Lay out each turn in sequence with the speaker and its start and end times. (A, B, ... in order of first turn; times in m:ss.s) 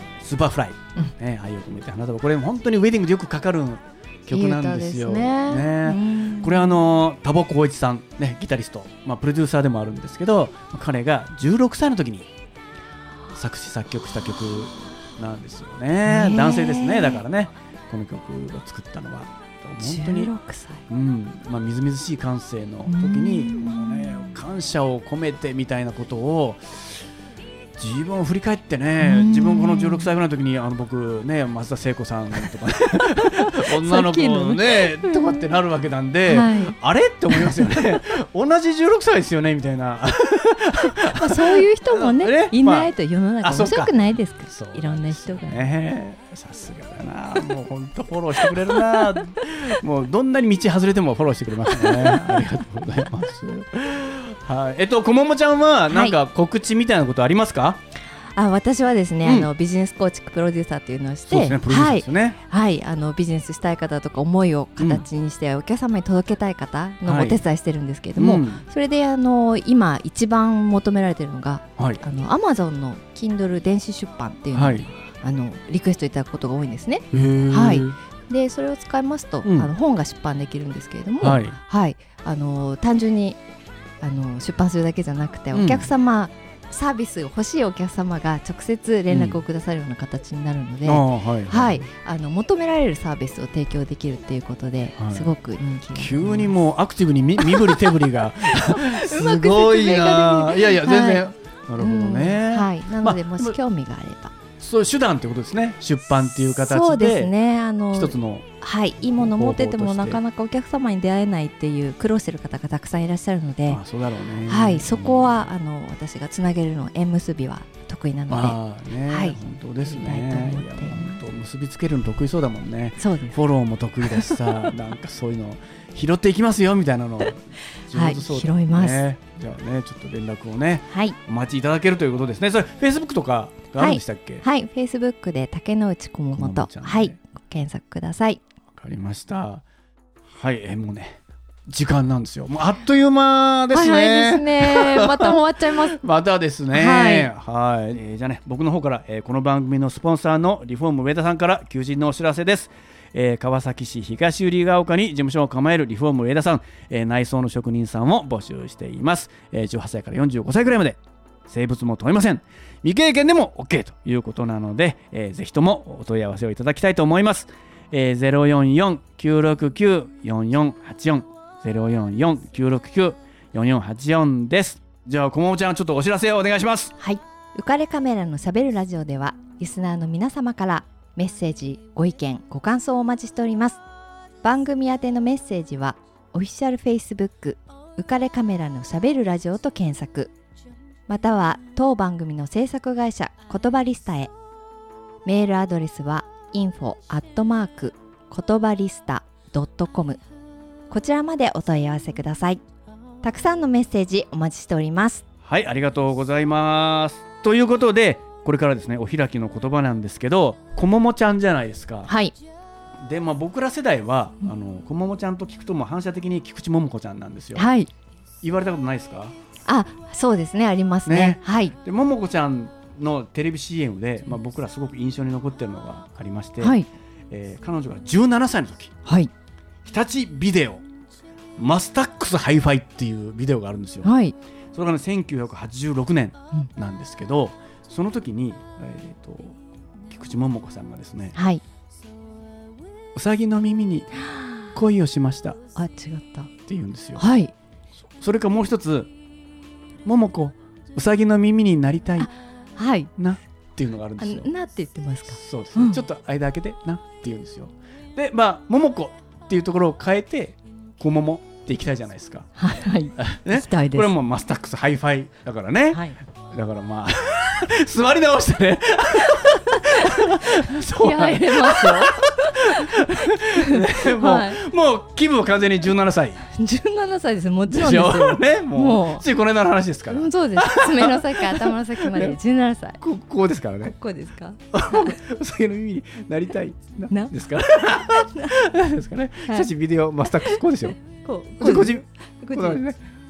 0:00.2-0:12.3 A
0:04.3-0:06.8 B
0:13.3-0:20.3 A
0:16.0-0:17.2 B
0:19.8-0:20.8 B
0:20.9-0:27.0 A
0:22.9-0:24.4 B
0:27.8-0:43.9 A
0:29.0-0:30.1 B
0:33.0-0:35.5 B
0:36.3-0:36.8 B
0:37.3-0:38.0 B
0:40.8-0:45.7 B
0:44.5-0:57.8 A
0:48.4-0:49.2 B
0:51.7-0:52.5 B
0:55.9-0:56.2 B
0:58.2-1:23.4 B
0:59.2-0:59.5 A
1:01.3-1:02.4 A
1:04.8-1:05.0 A
1:07.0-1:07.4 A
1:08.2-1:08.6 A
1:14.5-1:14.9 A
1:17.1-1:18.0 A
1:19.4-1:19.7 A
1:21.2-1:21.6 A
1:24.0-1:36.5 B
1:25.5-1:25.9 A
1:29.1-1:29.4 A
1:30.8-1:31.9 A
1:35.0-1:35.3 A
1:35.9-1:43.6 A
1:37.4-1:44.4 B
1:44.6-1:47.3 A
1:46.6-1:53.8 B
1:47.9-1:48.5 A
1:49.1-1:50.2 A
1:53.7-1:55.3 A
1:54.5-2:01.2 B
1:58.3-2:14.4 A
2:03.0-2:03.4 B
2:07.9-2:09.0 B
2:10.9-2:11.2 B
2:13.8-2:18.4 B
2:16.3-2:17.2 A
2:18.8-2:19.6 A
2:20.4-2:57.0 A
2:23.7-2:26.0 B
2:26.7-2:27.3 B
2:57.0-3:03.8 B
3:04.4-3:10.3 B
3:11.1-3:14.3 B
3:15.2-3:20.2 B
3:20.9-3:22.6 B
3:23.2-3:25.2 B
3:25.4-3:32.1 A
3:32.1-3:32.4 B
3:33.0-3:37.7 A
3:37.6-3:37.9 B
3:38.4-3:39.4 A
3:39.7-3:41.8 B
3:41.1-3:46.8 A
3:46.6-3:46.9 B
3:47.3-3:49.0 A
3:49.1-3:49.3 B
3:49.8-3:50.8 A
3:51.6-3:54.1 A
3:54.0-3:54.4 B
3:54.7-3:59.6 A
4:00.1-4:01.4 A
4:01.4-4:01.6 B
4:03.2-4:04.2 A
4:04.7-4:05.6 A
4:05.8-4:06.5 B
4:06.7-4:07.2 A
4:07.2-4:07.5 B
4:08.2-4:09.1 A
4:10.0-4:12.3 A
4:12.2-4:13.1 B
4:13.2-4:14.5 A
4:14.2-4:16.0 B
4:15.3-4:22.5 A
4:22.6-4:24.1 B
4:23.2-4:36.5 A
4:25.9-4:26.2 B
4:29.4-4:34.6 B
4:36.5-4:39.3 B
4:37.7-4:42.4 A
4:40.1-4:43.0 B
4:43.0-4:44.0 A
4:43.8-4:45.2 B
4:44.7-4:51.0 A
4:48.3-4:48.6 B
4:50.5-4:52.8 B
4:51.6-4:53.0 A